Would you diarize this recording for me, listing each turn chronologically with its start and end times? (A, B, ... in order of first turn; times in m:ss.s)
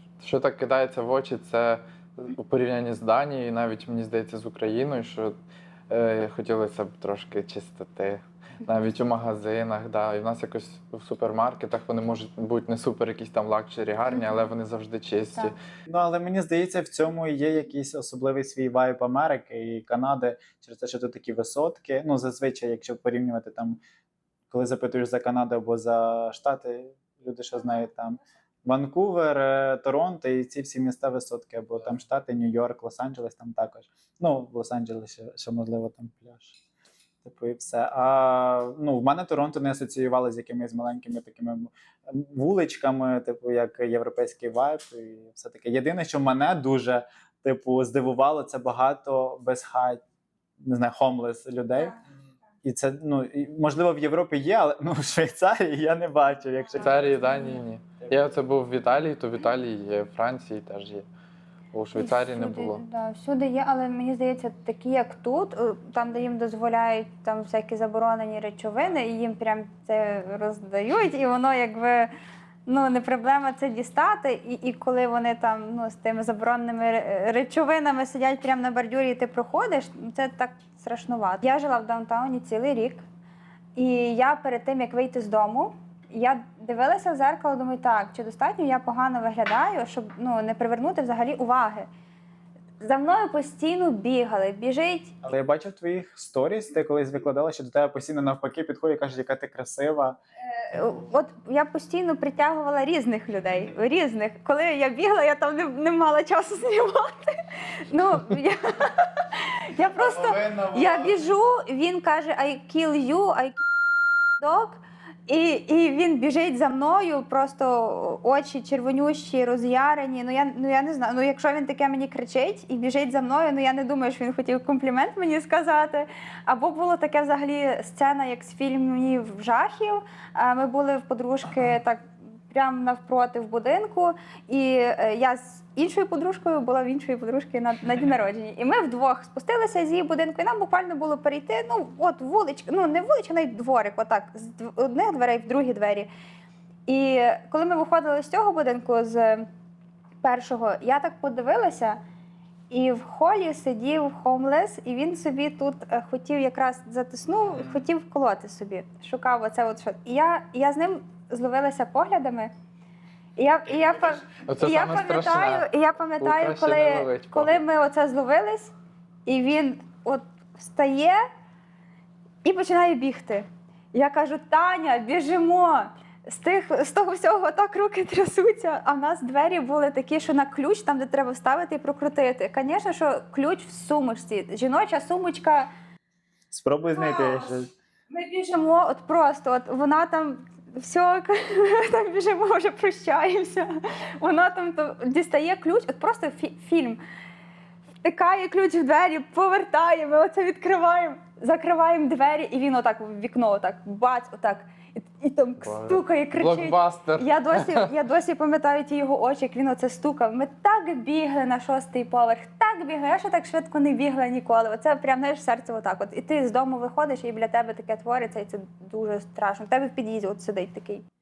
0:00.2-0:05.3 A
0:05.9-0:15.6 A
0:14.1-0:14.5 B
0:15.9-0:23.8 C
0:24.5-0:36.6 C
0:37.2-0:50.0 C
0:50.6-0:52.0 C
0:52.6-0:57.2 C
0:56.8-1:01.1 A
0:57.0-0:57.6 B
1:01.7-1:02.8 A
1:02.0-1:12.1 B
1:12.6-1:23.0 B
1:23.8-1:31.9 B
1:32.8-1:35.2 B
1:35.2-1:40.2 C
1:40.5-1:53.6 B
1:49.9-1:51.3 C
1:54.4-2:26.1 B
2:26.9-2:29.5 B
2:30.2-2:32.0 B
2:32.7-2:42.5 B
2:43.4-2:48.7 B
2:44.4-2:45.7 A
2:46.2-2:47.6 A
2:49.2-2:51.2 B
2:52.4-3:05.7 B
3:06.5-3:07.7 C
3:06.9-3:07.6 B
3:08.1-3:13.7 B
3:14.2-3:17.0 B
3:18.0-3:41.0 B
3:25.6-3:27.9 A